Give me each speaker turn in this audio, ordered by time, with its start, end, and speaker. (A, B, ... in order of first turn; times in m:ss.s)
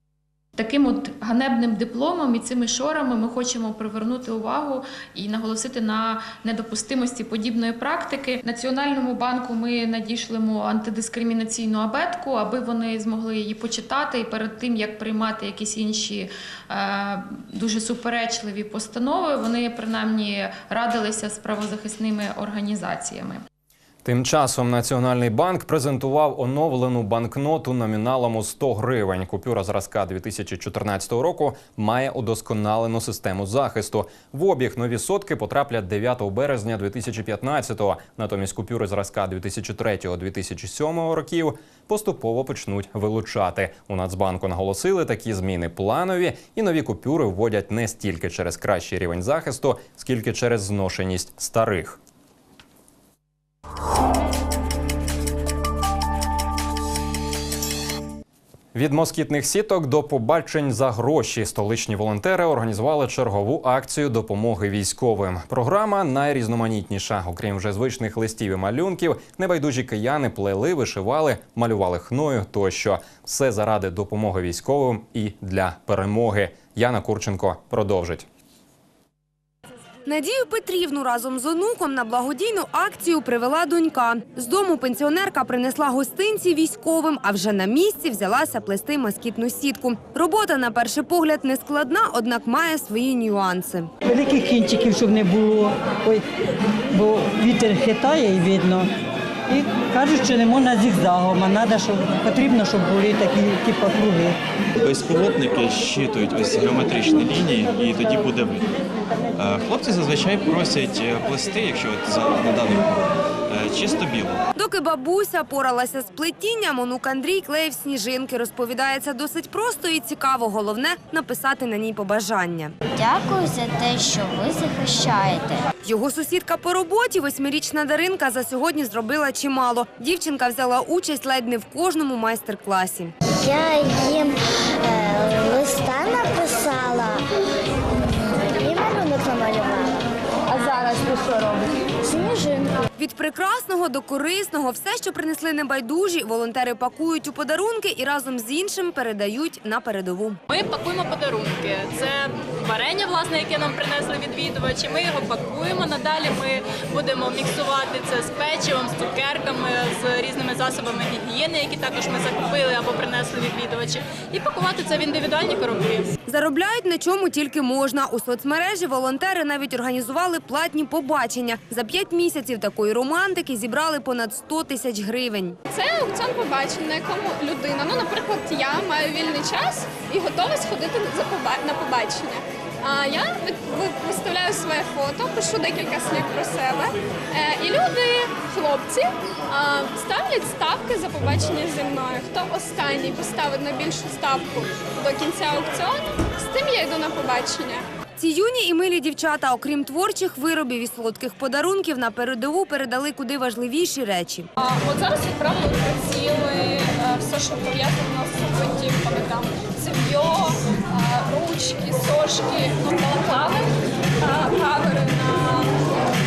0:00.6-0:23.4 A
0:24.0-0:52.0 B
0:58.7-1:18.3 B
1:20.0-1:33.9 C
1:34.1-1:36.2 D
1:36.9-1:38.9 D
1:39.5-1:44.4 D
1:44.8-1:48.6 E
1:49.4-1:52.9 E
1:53.5-1:54.4 E
1:54.6-2:02.8 C
2:03.0-2:05.6 F
2:05.8-2:13.1 C
2:13.5-2:14.3 F
2:13.6-2:13.9 D
2:15.0-2:17.1 F
2:16.1-2:16.9 D
2:18.6-2:19.8 D
2:23.0-2:30.4 C
2:30.5-2:46.1 G
2:46.3-2:55.6 C
2:55.7-3:17.8 H
3:18.2-3:24.5 C
3:24.6-3:33.7 H
3:34.2-3:35.7 H